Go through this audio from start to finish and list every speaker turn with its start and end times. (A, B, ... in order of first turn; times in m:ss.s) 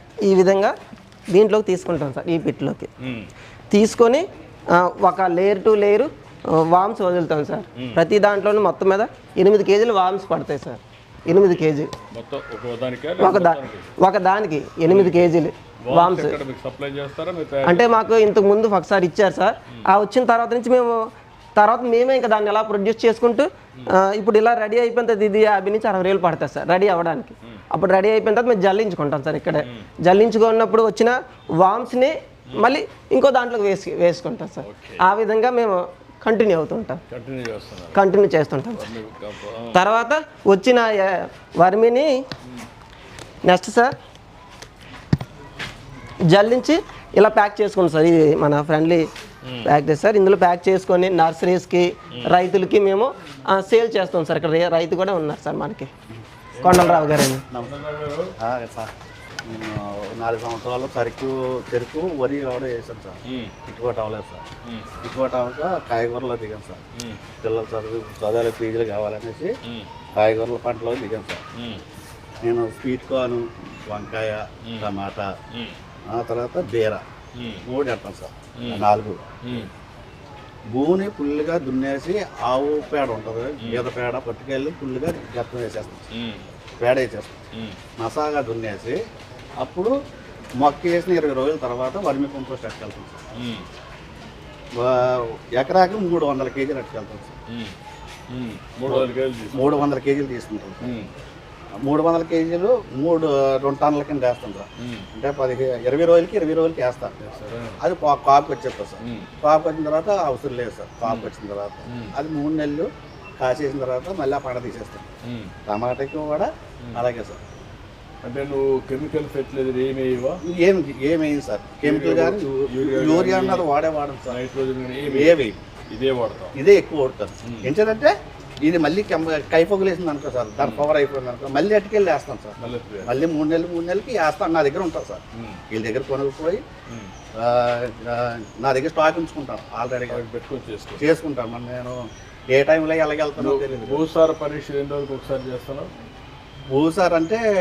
0:00.2-0:00.7 A
0:01.3-0:02.9 A
0:03.0-0:03.3 B
0:03.7-0:06.1 A
0:06.7-0:11.9 A
0:12.1-0:13.9 B
0:13.2-0:16.4 A
0:14.9-0:15.2 B
0:15.8-0:17.9 B
0:17.6-0:37.0 A
0:29.6-0:29.9 B
0:34.6-0:35.0 B
0:37.1-0:38.0 B
0:37.9-0:38.8 A
0:38.7-0:39.8 B
0:39.7-0:42.1 A
0:43.4-0:43.9 A
0:46.3-0:49.0 A
0:49.4-0:49.7 B
0:49.6-0:55.9 A
0:56.5-0:58.3 B
0:56.6-0:57.4 A
0:58.4-0:58.9 C
0:59.4-1:04.4 C
1:03.3-1:03.5 B
1:05.0-1:06.8 C
1:07.4-1:09.5 C
1:10.2-1:11.4 C
1:11.6-1:11.8 B
1:12.4-1:15.3 C
1:16.1-1:17.0 C
1:17.4-1:17.6 B
1:17.6-1:19.2 C
1:18.6-1:18.8 B
1:19.4-1:19.7 B
1:20.7-1:26.0 C
1:26.1-1:26.4 B
1:26.8-1:27.4 C
1:28.0-1:29.0 C
1:29.6-1:29.9 C
1:30.6-1:33.2 C
1:33.4-1:33.7 B
1:34.7-1:37.3 C
1:38.3-1:39.9 B
1:38.9-1:41.0 C
1:40.8-1:41.1 B
1:41.8-1:47.1 C
1:47.2-1:47.8 B
1:47.8-1:55.1 C
1:49.0-1:49.3 B
1:51.0-1:51.3 B
1:55.7-1:57.4 C
1:58.2-2:00.4 B
2:00.5-2:04.4 C
2:01.8-2:03.7 B
2:04.3-2:06.6 B
2:05.0-2:05.6 C
2:06.5-2:16.6 C
2:07.5-2:07.7 B
2:10.6-2:10.9 B
2:12.6-2:13.3 B
2:17.4-2:20.2 C
2:20.1-2:21.0 B
2:21.0-2:22.0 C
2:22.5-2:24.1 C
2:23.4-2:25.9 B
2:26.7-2:27.4 C